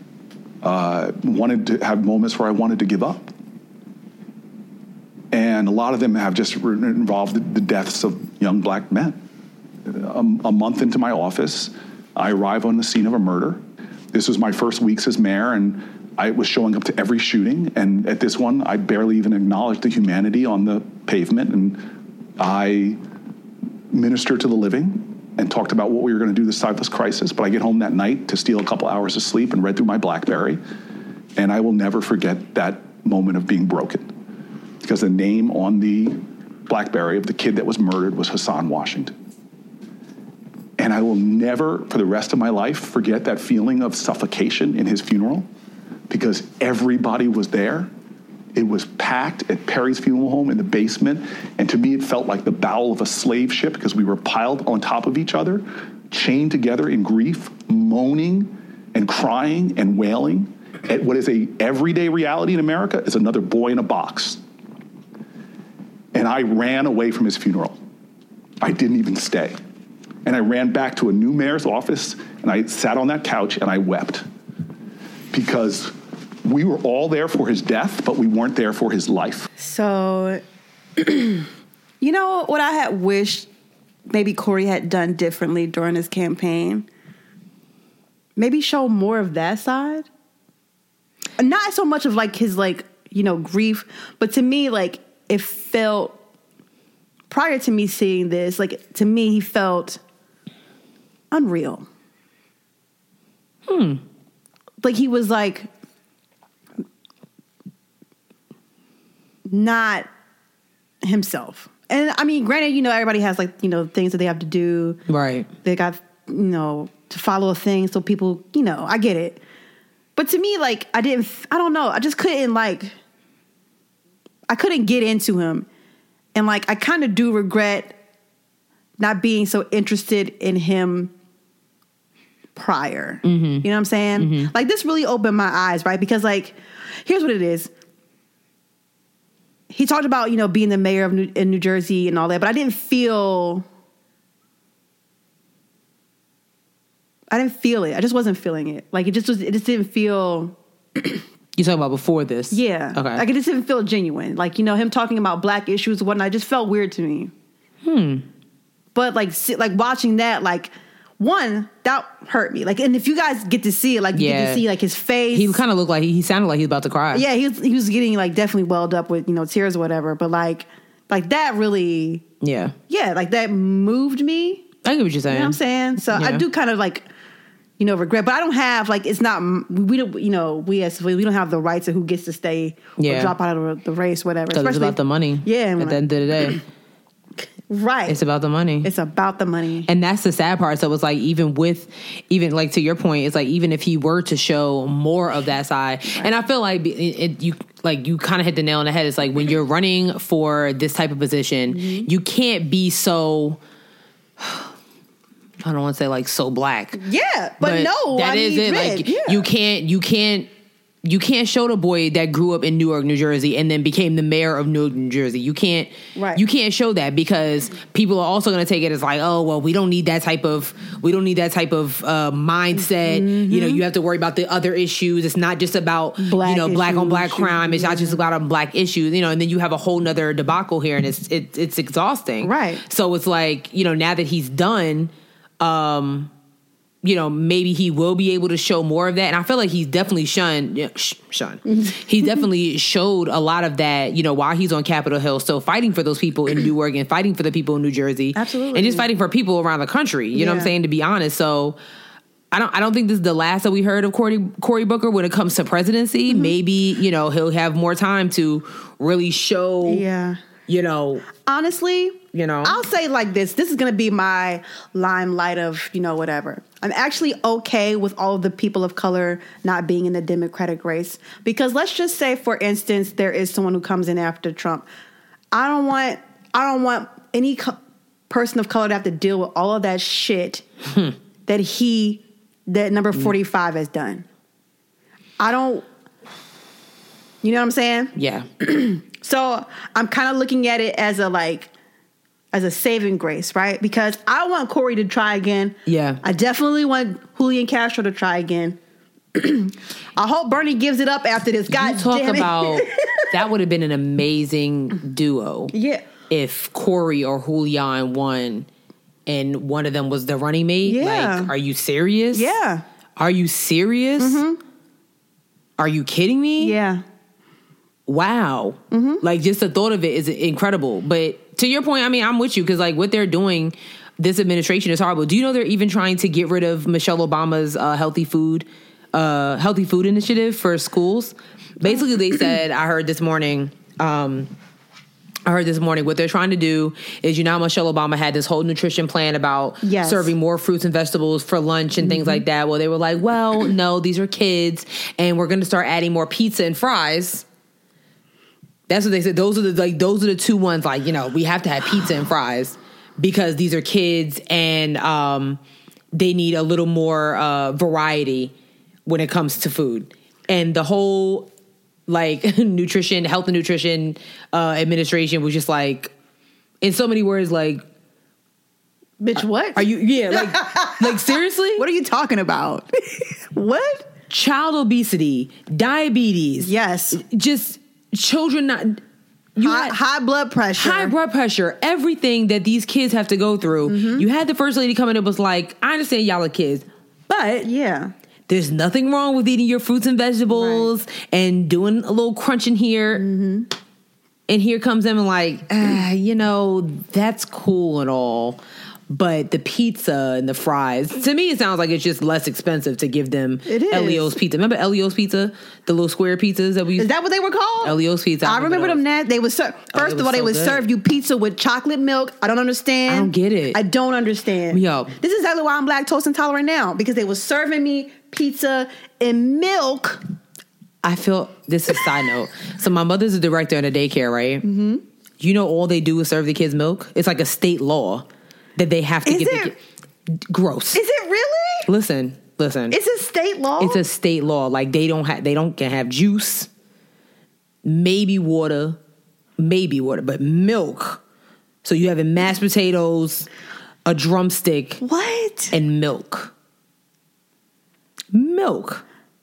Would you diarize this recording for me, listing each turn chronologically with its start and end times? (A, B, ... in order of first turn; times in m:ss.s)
0:00.6-0:03.3 A
0:05.3-0:09.2 A
0:09.9-0:13.6 A
0:14.1-0:21.9 A
0:22.4-0:23.0 A
0:23.9-0:30.6 A
0:31.4-0:34.1 A
0:34.8-0:39.1 A
0:40.8-0:45.5 A
0:46.1-0:47.9 A
0:48.6-1:04.4 A
1:06.1-1:07.8 A
1:08.6-1:09.6 A
1:10.2-1:14.2 A
1:15.3-1:19.5 A
1:19.6-1:20.4 B
1:21.0-1:21.5 B
1:22.0-1:23.5 B
1:24.1-1:26.9 B
1:28.4-1:30.1 B
1:31.4-1:36.2 B
1:37.3-1:40.0 B
1:41.3-1:41.9 B
1:43.7-1:44.0 C
1:44.8-1:45.7 B
1:49.5-1:50.1 B
1:51.0-1:55.0 B
1:55.1-1:55.5 C
1:55.6-1:59.4 B
2:00.2-2:03.0 B
2:04.5-2:05.7 B
2:06.4-2:08.0 B
2:09.0-2:11.1 B
2:12.6-2:17.7 B
2:13.2-2:13.7 C
2:14.2-2:14.5 C
2:19.7-2:23.6 B
2:27.3-2:31.2 B
2:31.6-2:33.2 C
2:32.5-2:37.3 B
2:37.8-2:38.2 C
2:39.0-2:45.6 B
2:44.1-2:44.6 C
2:45.3-2:47.2 C
2:47.1-2:52.2 B
2:52.4-2:52.8 C
2:52.9-2:54.7 B
2:54.8-2:55.6 C
2:55.3-2:57.1 B
2:56.1-2:56.4 C
2:57.8-3:06.6 B
3:03.0-3:03.3 C
3:04.5-3:06.6 C
3:07.7-3:08.2 B
3:08.1-3:08.9 C
3:08.8-3:09.9 B
3:09.9-3:23.6 C
3:21.7-3:22.1 B
3:24.4-3:24.6 C
3:25.6-3:27.0 C
3:27.0-3:29.5 B
3:27.6-3:30.5 C
3:31.0-3:56.3 C
3:36.2-3:36.4 B
3:42.8-3:43.8 B
3:46.2-3:48.2 B
3:52.4-3:52.8 B
3:57.0-4:11.8 C
4:08.4-4:09.1 B
4:10.3-4:10.7 B
4:12.5-4:20.0 C
4:19.8-4:20.4 B
4:20.7-4:21.2 C
4:21.4-4:34.9 B
4:22.3-4:22.8 C
4:35.5-4:37.8 B
4:38.3-4:40.6 B
4:41.5-4:44.3 B
4:45.4-4:45.8 B
4:47.4-4:51.7 B
4:48.2-4:48.5 C
4:52.5-4:58.8 B
4:55.9-4:56.2 C
4:59.4-5:03.3 B
5:01.7-5:05.7 C
5:05.7-5:06.0 B
5:06.3-5:08.7 C
5:09.3-5:12.5 C
5:10.8-5:11.5 B
5:12.3-5:12.8 B
5:13.2-5:14.4 C
5:14.2-5:14.6 B
5:15.8-5:16.8 C
5:16.6-5:17.0 B
5:18.1-5:34.5 C
5:18.9-5:19.2 B
5:35.5-5:47.4 C
5:39.8-5:40.3 B
5:42.0-5:42.4 B
5:48.9-5:55.6 C
5:56.1-5:58.5 C
5:59.1-6:01.5 C
6:02.1-6:06.1 C
6:06.8-6:07.8 C
6:09.2-6:14.1 B
6:09.8-6:11.8 C
6:14.3-6:19.0 C
6:16.6-6:17.2 B
6:19.6-6:20.0 C
6:19.6-6:21.2 B
6:20.8-6:27.6 C
6:23.8-6:24.3 B
6:27.6-6:28.1 B
6:28.5-6:33.2 C
6:30.5-6:30.9 B
6:33.1-6:33.7 B
6:34.5-6:47.1 C
6:43.7-6:44.4 B
6:47.0-7:00.2 B
6:47.8-6:49.0 C
6:49.9-6:50.9 C
6:53.1-6:53.8 C
6:54.7-6:55.2 C
7:01.0-7:04.6 C
7:04.6-7:05.0 B
7:05.4-7:08.3 C
7:08.8-7:09.8 C
7:09.3-7:09.7 B
7:10.4-7:11.0 C
7:10.9-7:11.9 B
7:11.9-7:13.0 C
7:12.9-7:14.0 B
7:13.8-7:16.7 C
7:17.8-7:19.0 C
7:19.6-7:21.2 C
7:21.8-7:23.5 C
7:24.0-7:25.0 C
7:25.0-7:25.8 B
7:25.7-7:26.5 C
7:28.3-7:29.0 C